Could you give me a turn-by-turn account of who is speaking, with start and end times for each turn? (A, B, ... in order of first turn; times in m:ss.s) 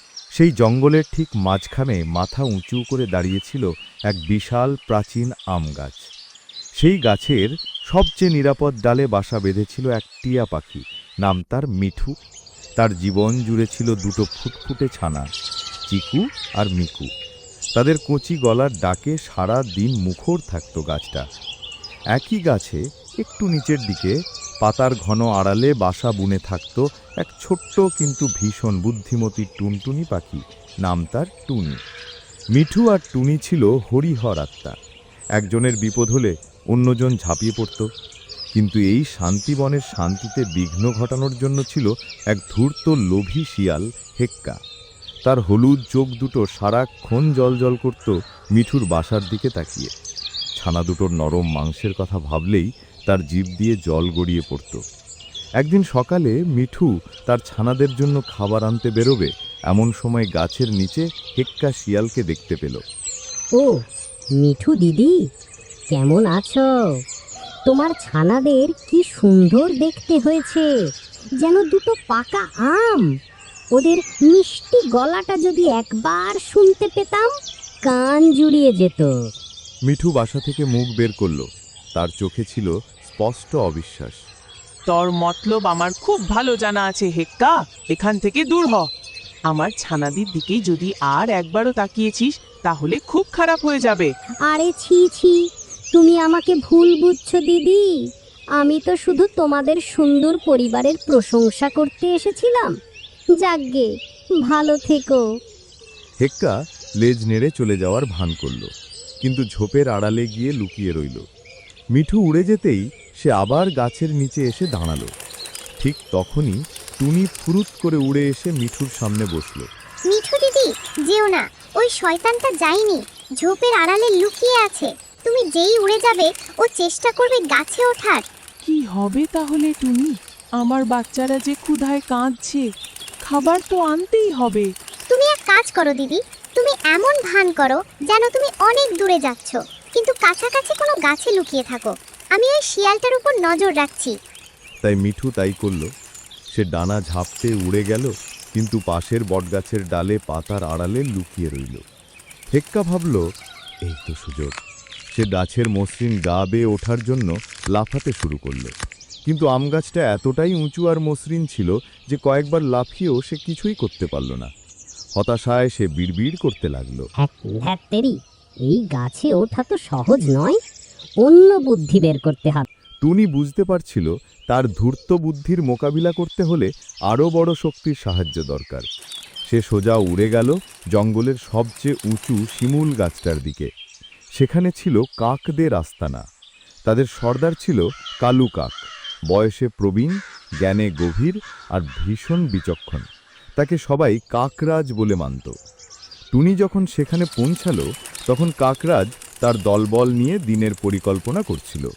0:00.3-0:06.1 A
0:06.8-0:12.1 A
0:12.8-0:15.2 A
0:15.9-0:17.1 A
0:17.7-0:21.2 A
0:22.1-0:31.8 A
0:32.5-0:34.7 A
0:35.4-0:37.9 A
0:38.5-0:44.6 A
0:45.2-0:49.9 A
0:50.6-0:54.8 A
0:55.6-1:02.8 A
1:03.6-1:03.8 B
1:04.4-1:05.2 B
1:05.9-1:06.7 B
1:07.6-1:10.7 B
1:11.4-1:13.1 B
1:13.7-1:17.3 B
1:17.8-1:19.1 B
1:19.9-1:24.2 A
1:24.9-1:28.9 C
1:29.5-1:34.1 C
1:34.5-1:35.4 B
1:35.9-1:37.9 B
1:38.6-1:42.7 B
1:43.4-1:43.9 B
1:44.4-1:45.2 B
1:46.2-1:48.7 A
1:49.2-1:51.2 A
1:51.9-1:55.1 A
1:55.8-1:59.7 A
2:00.1-2:08.2 D
2:08.6-2:12.6 C
2:13.2-2:14.7 C
2:15.1-2:24.1 D
2:24.8-2:25.9 A
2:26.5-2:31.8 A
2:32.5-2:33.2 A
2:33.8-2:34.6 A
2:35.1-2:38.7 A
2:39.2-2:44.5 A
2:45.2-2:47.1 A
2:47.2-2:50.6 B
2:51.2-2:52.6 B
2:53.0-2:58.9 A
2:59.5-3:03.7 A
3:04.4-3:06.2 A
3:06.8-3:13.1 A
3:13.6-3:15.5 A
3:16.3-3:21.9 A